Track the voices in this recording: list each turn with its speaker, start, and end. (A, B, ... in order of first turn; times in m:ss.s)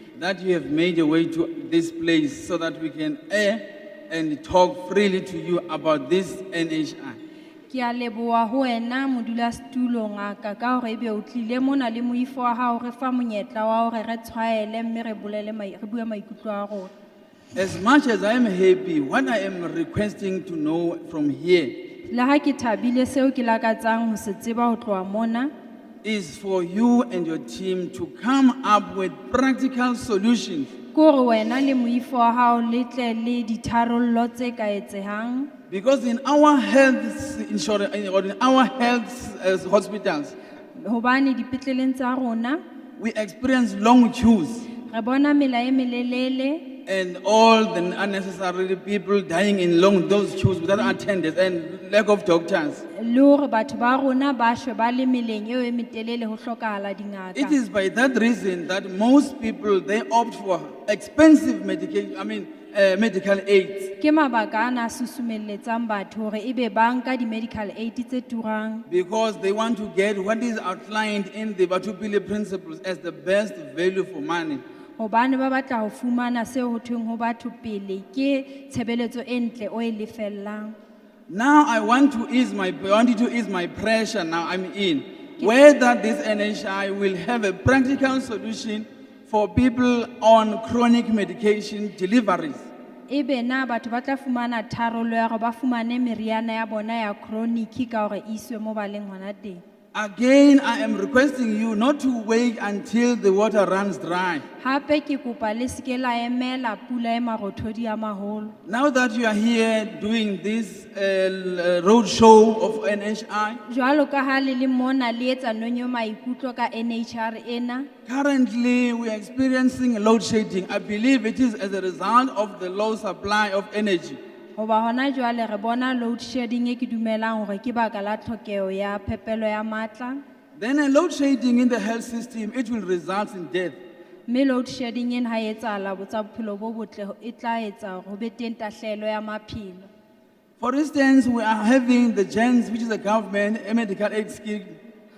0:00.2-0:07.2 A
0:07.7-0:16.9 B
0:17.5-0:21.7 A
0:22.1-0:25.5 B
0:26.0-0:30.7 A
0:30.9-0:35.5 B
0:35.7-0:40.3 A
0:40.7-0:42.6 B
0:43.0-0:44.7 A
0:44.9-0:46.6 B
0:46.8-0:52.8 A
0:53.0-0:57.6 B
0:57.4-1:03.9 A
1:04.0-1:08.8 B
1:08.9-1:14.6 A
1:15.0-1:20.8 B
1:21.3-1:32.7 A
1:33.1-1:39.6 B
1:39.9-1:44.4 A
1:44.6-1:48.5 B
1:48.6-1:53.6 A
1:53.6-1:57.9 B
1:58.0-2:04.2 A
2:04.6-2:10.2 B
2:10.5-2:13.8 A
2:14.3-2:19.9 B
2:20.6-2:24.8 A